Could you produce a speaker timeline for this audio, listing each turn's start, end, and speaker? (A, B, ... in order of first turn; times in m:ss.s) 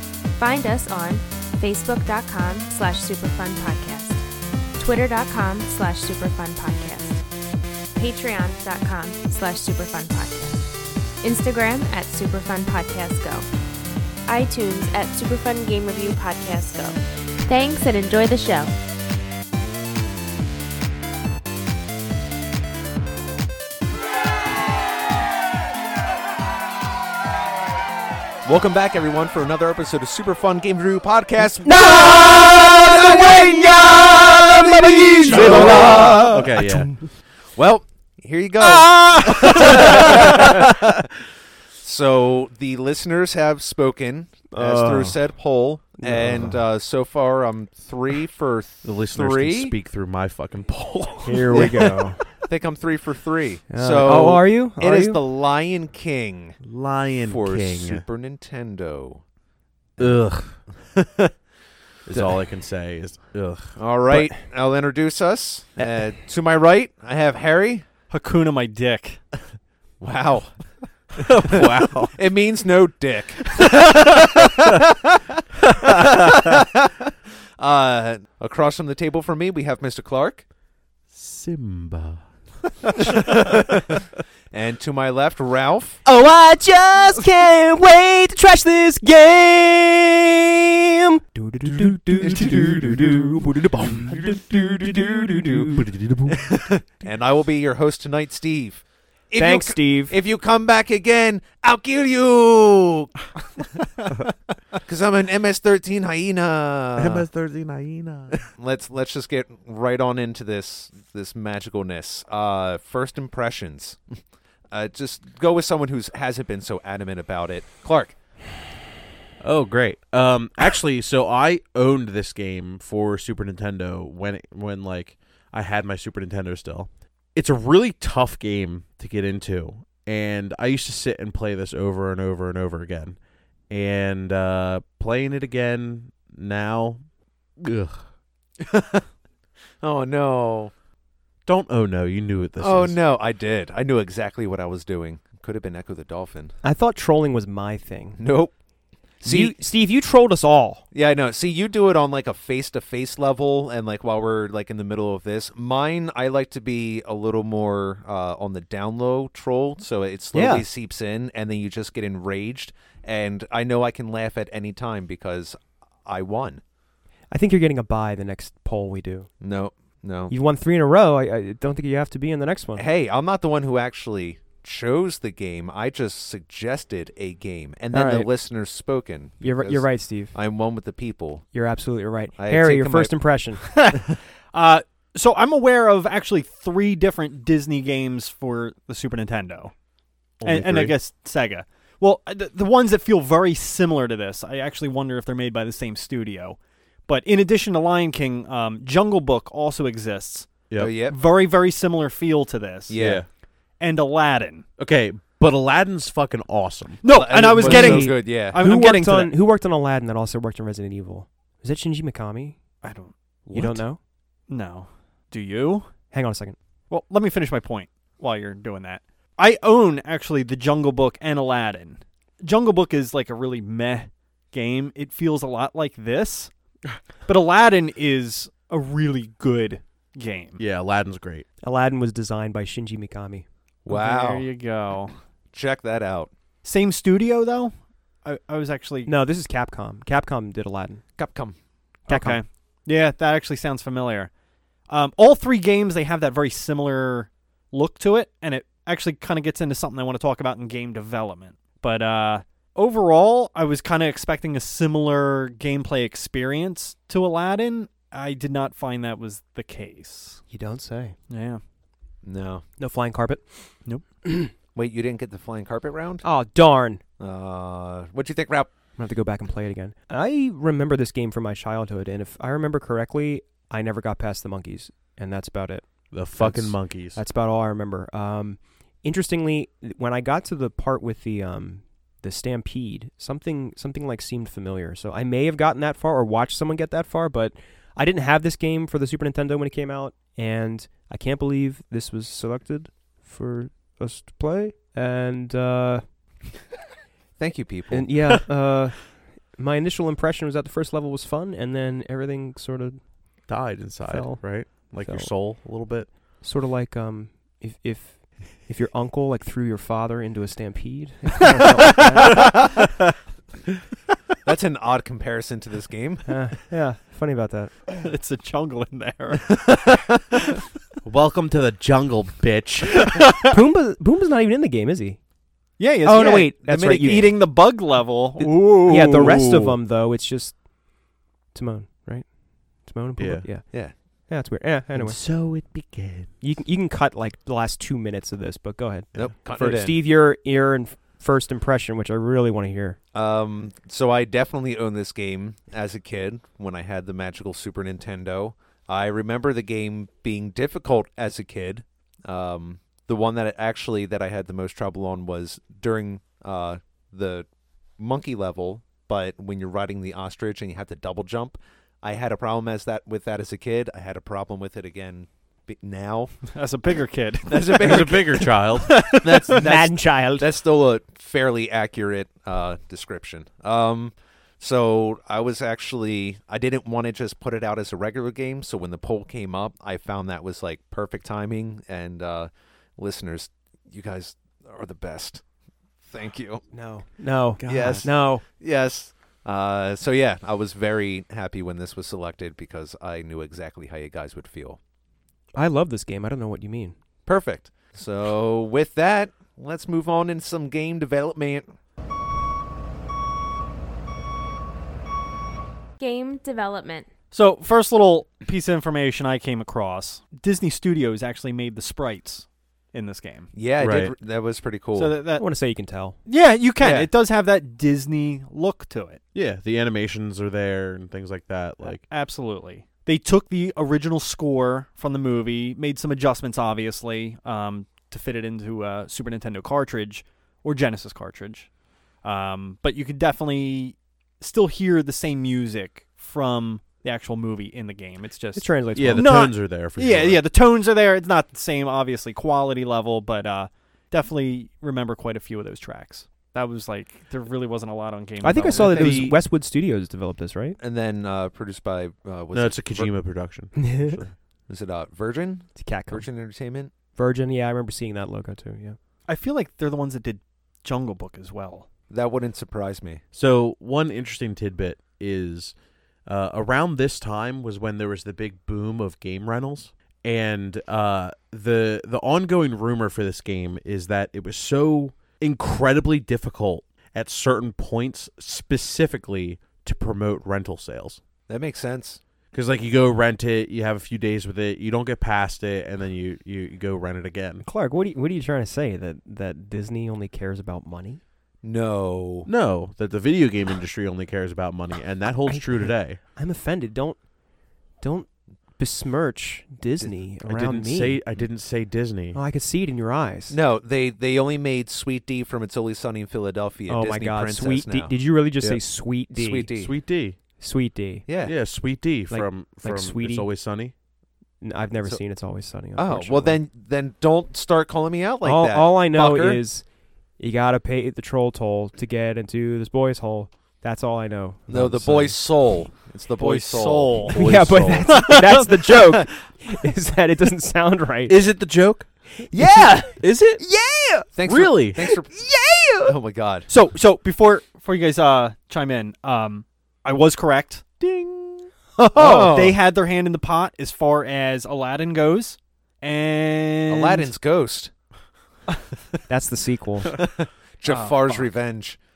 0:00.4-0:04.2 A
0:04.8-0:07.2 A
0:08.0-0:10.6 A
0:11.2-0:13.5 A
0:14.2-0:18.7 A
0:28.4-0:36.4 B
0:31.6-0:36.9 C
0:35.3-0:37.1 D
0:37.5-0:41.1 B
0:38.6-0:40.5 C
0:41.8-0:49.7 B
0:44.5-0:45.2 C
0:46.0-0:46.6 C
0:48.8-0:51.8 D
0:51.2-0:52.2 C
0:51.5-0:56.6 B
0:53.7-0:55.2 C
0:56.6-0:58.0 D
0:57.2-0:59.2 B
1:00.0-1:00.6 D
1:00.7-1:01.3 B
1:02.0-1:03.8 D
1:03.8-1:07.8 B
1:08.1-1:09.2 E
1:10.0-1:10.6 B
1:11.2-1:12.1 D
1:11.5-1:20.4 B
1:14.0-1:14.3 D
1:15.7-1:16.6 D
1:21.1-1:22.2 D
1:22.9-1:24.0 D
1:23.0-1:24.0 B
1:24.5-1:26.0 B
1:26.0-1:35.9 C
1:32.1-1:33.2 D
1:32.4-1:32.7 B
1:35.1-1:35.7 B
1:35.7-1:36.6 D
1:36.3-1:43.6 B
1:39.4-1:40.2 C
1:44.7-1:47.3 B
1:47.0-1:48.5 D
1:48.4-1:58.1 B
1:59.4-2:13.2 D
2:13.7-2:17.0 D
2:17.6-2:18.1 D
2:18.6-2:19.0 B
2:19.8-2:20.7 B
2:21.4-2:23.0 D
2:22.6-2:26.5 B
2:26.6-2:28.2 C
2:28.2-2:28.5 B
2:29.2-2:29.6 B
2:29.2-2:30.8 C
2:30.9-2:46.6 B
2:40.3-2:40.6 C
2:47.3-2:49.3 C
2:49.4-2:50.3 B
2:50.3-2:52.8 C
2:52.8-3:01.4 B
2:57.9-2:58.3 C
2:59.4-3:00.3 C
3:01.5-3:03.6 C
3:02.3-3:03.2 B
3:03.8-3:09.7 E
3:10.4-3:10.9 D
3:10.4-3:23.2 E
3:20.8-3:21.2 B
3:22.9-3:23.2 B
3:23.0-3:23.3 D
3:23.8-3:24.6 E
3:24.8-3:27.0 D
3:27.0-3:29.3 E
3:27.0-3:28.6 B
3:27.6-3:32.6 C
3:32.8-3:33.1 E
3:33.5-3:33.8 B
3:33.5-3:34.0 C
3:34.5-3:35.9 E
3:36.1-3:36.6 C
3:36.9-3:46.5 E
3:47.2-3:50.6 E
3:50.6-3:51.4 D
3:51.6-3:53.4 C
3:53.8-3:54.5 B
3:53.9-3:55.1 E
3:55.5-3:56.3 B
3:56.6-3:57.7 E
3:58.2-3:59.1 E
3:59.0-4:01.0 C
4:01.2-4:01.6 B
4:02.1-4:04.3 E
4:02.1-4:02.4 C
4:04.9-4:20.4 E
4:20.5-4:21.2 C
4:21.3-4:21.6 E
4:22.2-4:22.6 B
4:22.8-4:23.4 C
4:24.2-4:24.5 C
4:24.7-4:26.2 B
4:26.2-4:27.0 C
4:27.2-4:28.7 B
4:29.0-4:56.2 C
4:36.1-4:37.2 D
4:57.4-4:58.1 B
4:57.9-5:03.5 C
5:03.5-5:06.1 D
5:04.0-5:05.3 C
5:06.4-5:12.4 C
5:11.6-5:12.2 E
5:14.4-5:16.3 B
5:16.3-5:17.7 C
5:18.0-5:19.6 E
5:19.6-5:20.4 B
5:21.0-5:23.2 D
5:23.5-5:25.2 C
5:25.8-5:29.5 E
5:26.0-5:27.4 C
5:26.4-5:27.4 B
5:28.4-5:30.6 C
5:28.9-5:29.7 D
5:31.5-5:35.2 C
5:33.2-5:33.4 D
5:35.0-5:36.3 D
5:36.4-5:43.0 C
5:39.1-5:40.0 B
5:43.1-5:57.5 B
5:58.0-6:06.4 B
6:06.5-6:07.9 E
6:07.4-6:25.4 B
6:07.8-6:08.9 D
6:08.8-6:10.5 C
6:26.0-6:26.6 B
6:26.7-6:28.4 C
6:27.6-6:28.0 D
6:27.6-6:34.8 B
6:35.5-6:36.9 C
6:37.2-6:41.6 B
6:46.0-6:47.1 A
6:47.3-6:53.5 E
6:53.5-6:55.2 B
6:53.8-6:54.1 D
6:54.9-6:55.4 E
6:55.4-6:56.2 C
6:56.3-6:59.2 E
6:56.8-6:57.1 B
6:59.3-7:02.0 D
7:01.8-7:11.7 E
7:12.2-7:29.4 E
7:18.6-7:19.4 C
7:18.9-7:20.4 D
7:28.4-7:30.8 C
7:28.8-7:29.2 D
7:30.8-7:33.1 B
7:32.5-7:34.3 D
7:33.8-7:34.2 C
7:34.7-7:36.9 B
7:35.8-7:36.2 C
7:37.2-7:39.0 C
7:39.3-7:41.9 E
7:42.1-7:43.2 B
7:43.3-7:45.7 D
7:46.2-8:01.2 D
8:01.5-8:02.2 B
8:02.5-8:07.6 D
8:07.6-8:11.2 C
8:11.6-8:12.5 B
8:12.4-8:16.2 D
8:15.4-8:17.4 C
8:18.0-8:21.2 C
8:20.4-8:22.4 D
8:22.3-8:23.6 C
8:23.5-8:28.1 B
8:26.9-8:29.7 C
8:29.3-8:29.9 B
8:29.8-8:30.4 D
8:30.6-8:31.2 C
8:31.3-8:31.5 B
8:31.4-8:33.9 D
8:32.3-8:33.5 C
8:34.6-8:36.6 C
8:36.0-8:39.6 B
8:38.4-8:39.8 C
8:40.4-8:45.4 C
8:44.7-8:47.3 B
8:46.4-8:47.4 E
8:47.3-8:48.2 D
8:47.3-8:51.4 C
8:51.3-8:52.1 D
8:52.5-8:53.0 B
8:52.5-8:54.3 C
8:53.2-8:53.6 D
8:54.3-8:55.5 B
8:54.5-8:55.1 D
8:55.1-8:56.1 C
8:56.0-8:56.7 B
8:56.7-9:01.0 E
9:01.0-9:01.4 D
9:02.0-9:02.8 B
9:02.1-9:07.3 E
9:06.9-9:07.9 B
9:09.3-9:10.1 C
9:10.2-9:12.0 B
9:10.8-9:11.5 E